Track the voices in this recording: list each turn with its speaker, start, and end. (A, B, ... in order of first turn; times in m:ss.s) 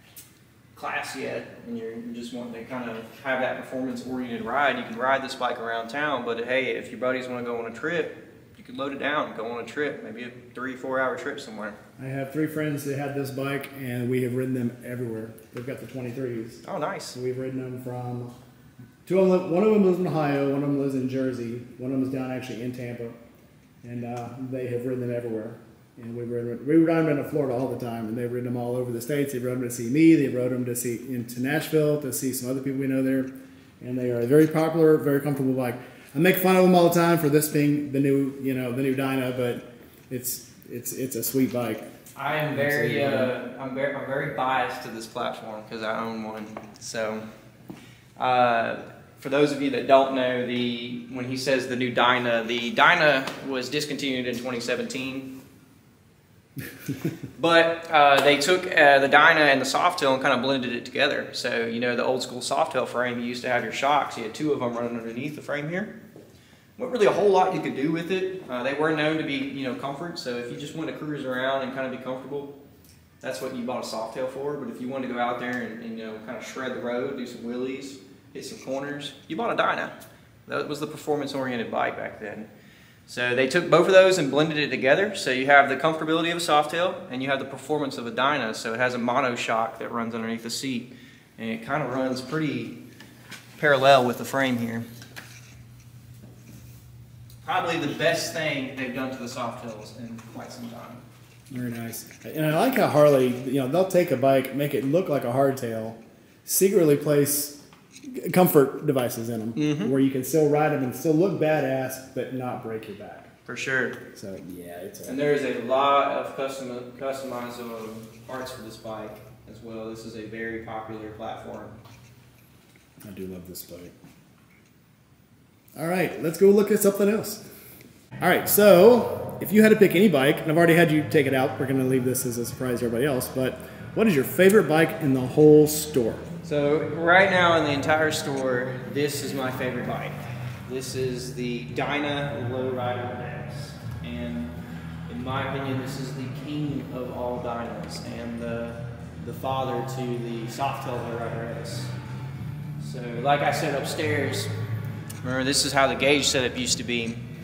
0:00.7-0:11.8 A
0:12.0-0:18.3 B
0:16.6-0:17.2 A
0:19.0-0:23.2 B
0:23.8-0:41.8 B
0:42.2-0:47.2 A
0:42.5-0:43.3 B
0:48.2-0:55.3 A
0:57.3-1:06.0 A
1:06.8-1:12.6 A
1:13.2-1:22.5 A
1:23.1-1:32.8 A
1:33.6-1:34.9 A
1:37.4-1:41.0 A
1:41.5-1:53.3 B
1:49.5-1:49.9 A
1:53.4-1:54.0 A
1:54.1-1:55.2 B
1:55.0-2:01.8 A
2:03.0-2:04.0 B
2:05.7-2:07.4 B
2:08.2-2:16.3 B
2:16.4-2:24.5 A
2:25.1-2:31.9 A
2:32.8-2:34.5 A
2:35.2-2:37.2 A